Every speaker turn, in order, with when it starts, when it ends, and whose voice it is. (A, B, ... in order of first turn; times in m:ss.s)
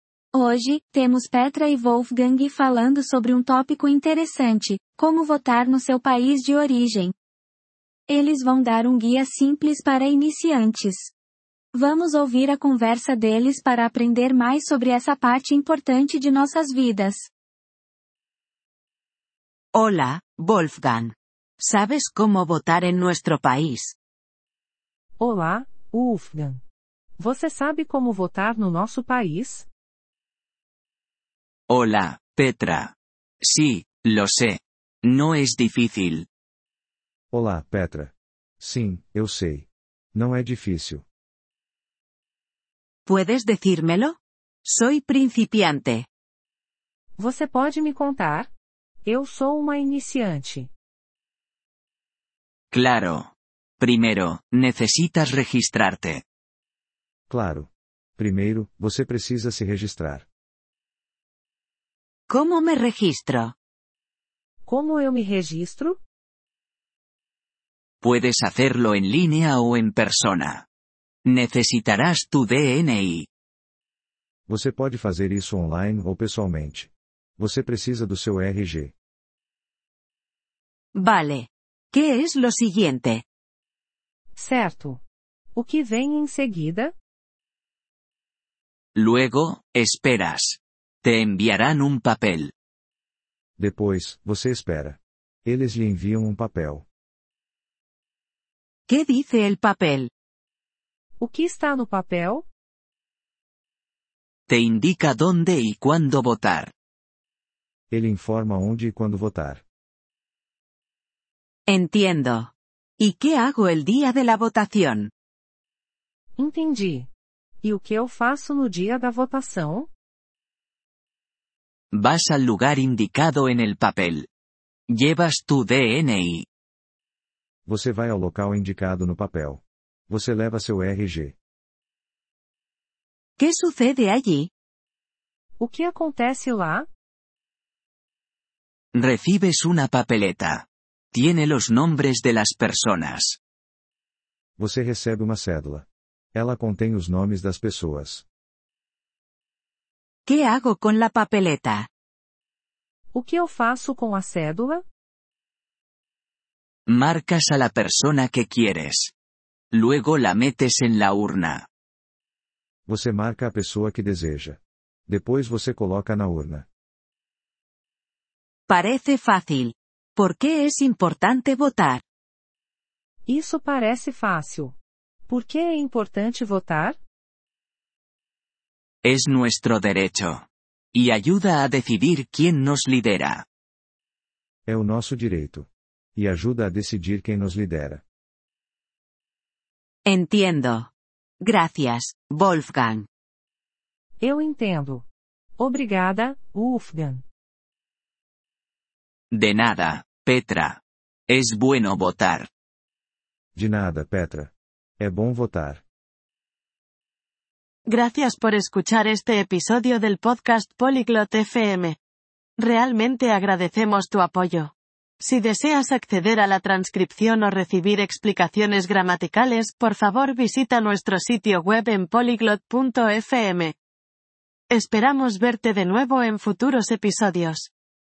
0:00.3-0:07.1 A
0:08.1-0:11.1 A
0:11.7-0:17.3 A
0:19.7-0:24.0 B
0:25.2-0:26.6 C
0:27.2-0:29.7 C
0:31.7-0:36.3 D
0:37.3-0:41.0 E
0:43.1-0:46.1 B
0:47.2-0:48.5 C
0:49.0-0:50.7 C
0:52.7-0:56.2 D
0:57.3-1:00.3 E
1:02.3-1:03.5 B
1:04.6-1:06.0 C
1:08.0-1:10.6 D
1:11.2-1:13.3 D
1:14.5-1:18.9 E
1:20.9-1:23.2 B
1:24.4-1:25.0 C
1:25.5-1:26.9 C
1:28.9-1:32.5 D
1:33.6-1:36.9 E
1:38.9-1:40.1 B
1:41.2-1:42.4 C
1:44.5-1:46.7 D
1:47.9-1:49.6 E
1:51.7-1:55.1 B
1:56.4-1:57.1 C
1:57.6-1:59.9 C
2:01.9-2:04.3 D
2:04.9-2:06.4 D
2:07.6-2:11.4 E
2:13.4-2:14.5 B
2:15.6-2:16.9 C
2:18.9-2:23.4 D
2:24.6-2:28.2 E
2:30.3-2:31.9 B
2:33.1-2:34.8 C
2:36.9-2:39.1 D
2:39.7-2:41.7 D
2:42.9-2:46.7 E
2:48.7-2:52.0 B
2:53.2-2:54.8 C
2:55.3-2:57.0 C
2:59.0-3:03.4 D
3:04.7-3:08.0 E
3:10.0-3:13.1 B
3:14.2-3:15.0 C
3:15.6-3:17.2 C
3:19.3-3:22.5 D
3:23.6-3:25.8 E
3:27.9-3:32.0 F
3:32.6-3:43.7 F
3:44.7-3:47.7 F